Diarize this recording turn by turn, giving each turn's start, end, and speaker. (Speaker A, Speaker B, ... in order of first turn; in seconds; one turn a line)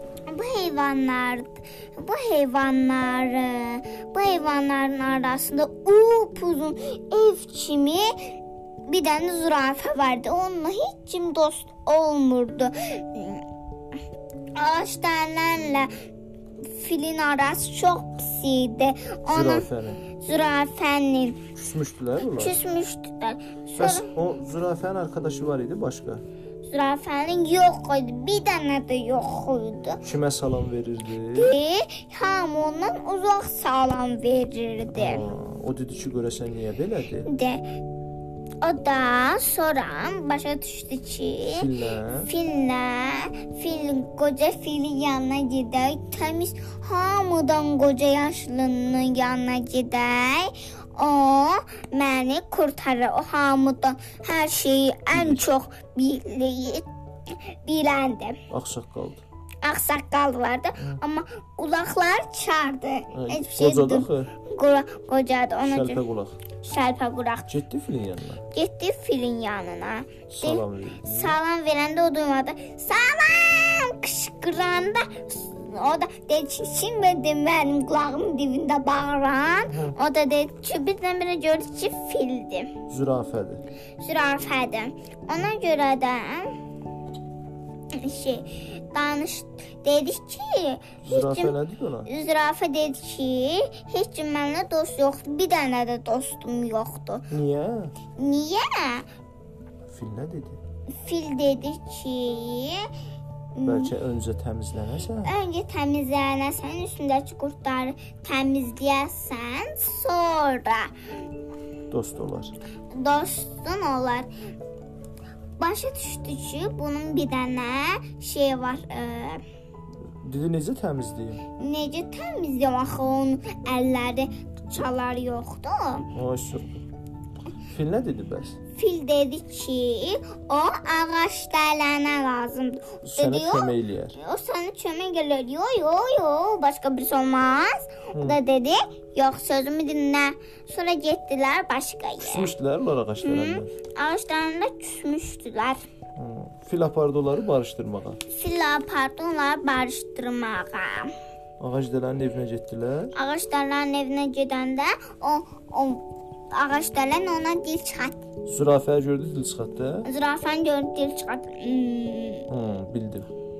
Speaker A: 0.3-8.3
Speaker A: 8.8-13.4
Speaker A: 14.5-15.9
Speaker A: 16.7-21.5
Speaker B: 19.3-20.0
Speaker B: 21.5-22.6
Speaker A: 22.4-24.1
Speaker B: 23.8-26.2
Speaker A: 26.6-30.0
Speaker B: 30.0-31.6
Speaker A: 31.3-35.2
Speaker B: 34.9-37.3
Speaker A: 37.2-37.6
Speaker A: 38.6-41.7
Speaker B: 41.5-42.3
Speaker A: 42.2-58.4
Speaker B: 55.1-55.4
Speaker B: 58.5-59.2
Speaker A: 59.6-66.0
Speaker B: 63.1-64.3
Speaker B: 65.7-66.3
Speaker A: 66.6-67.5
Speaker B: 67.5-68.4
Speaker A: 68.5-82.7
Speaker B: 70.3-71.4
Speaker B: 79.7-80.0
Speaker B: 82.9-83.6
Speaker A: 84.0-86.5
Speaker A: 87.9-97.3
Speaker B: 91.0-92.1
Speaker B: 97.3-97.9
Speaker A: 98.2-99.0
Speaker B: 99.9-100.6
Speaker A: 101.0-102.9
Speaker A: 103.5-103.9
Speaker B: 103.6-105.3
Speaker A: 105.2-110.9
Speaker B: 111.9-112.5
Speaker A: 112.9-114.3
Speaker A: 115.6-119.4
Speaker B: 120.2-121.4
Speaker A: 121.5-126.1
Speaker B: 126.1-126.8
Speaker B: 127.6-128.6
Speaker A: 128.7-142.5
Speaker B: 133.0-134.2
Speaker B: 138.1-138.4
Speaker B: 142.2-143.7
Speaker A: 143.2-145.8
Speaker B: 146.2-148.2
Speaker A: 148.3-151.1
Speaker B: 151.6-153.1
Speaker A: 153.1-158.2
Speaker B: 158.5-160.1
Speaker A: 160.0-162.5
Speaker B: 162.5-163.3